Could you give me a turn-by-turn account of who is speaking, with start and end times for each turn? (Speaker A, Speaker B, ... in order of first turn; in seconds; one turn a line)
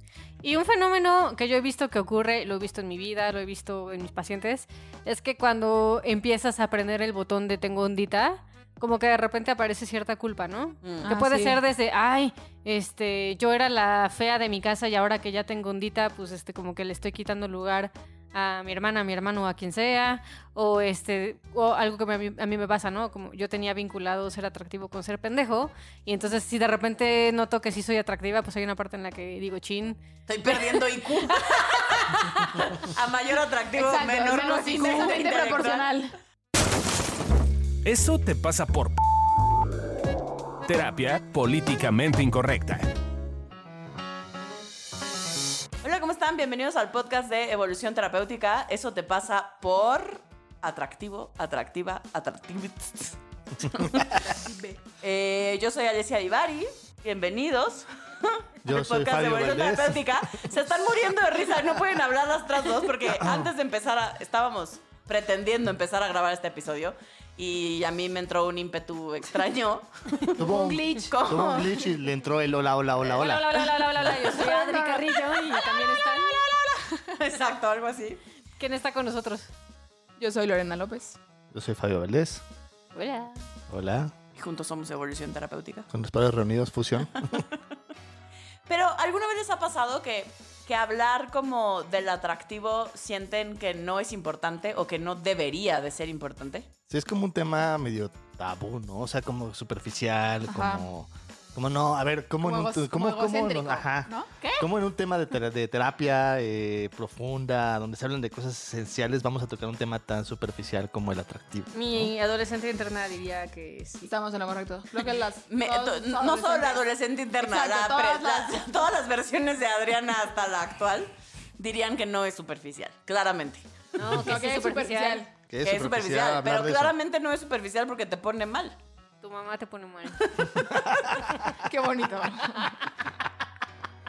Speaker A: 0.4-30.8
Speaker B: 10.8-11.1
Speaker C: 11.0-11.6
Speaker B: 30.3-35.9
Speaker A: 31.4-32.6
Speaker C: 33.7-36.1
Speaker D: 37.8-39.0
Speaker D: 40.6-42.9
Speaker B: 45.8-54.2
Speaker C: 54.1-54.8
Speaker B: 55.0-70.3
Speaker E: 58.6-60.5
Speaker E: 63.1-63.5
Speaker C: 70.3-71.8
Speaker E: 70.4-74.1
Speaker B: 71.1-71.7
Speaker A: 73.0-76.5
Speaker C: 74.2-77.2
Speaker B: 77.2-78.2
Speaker A: 78.6-79.5
Speaker C: 80.2-81.2
Speaker E: 81.5-82.4
Speaker A: 82.9-83.5
Speaker E: 83.7-84.1
Speaker B: 84.4-85.9
Speaker E: 85.9-87.4
Speaker B: 88.7-96.7
Speaker E: 96.9-112.1
Speaker C: 100.5-100.8
Speaker C: 102.4-104.7
Speaker A: 111.7-114.1
Speaker C: 114.1-116.8
Speaker B: 115.5-123.9
Speaker C: 117.4-118.6
Speaker A: 124.0-125.3
Speaker E: 124.0-124.3
Speaker C: 124.2-125.3
Speaker E: 125.5-127.0
Speaker B: 125.6-128.8
Speaker A: 129.2-130.6
Speaker C: 131.6-132.8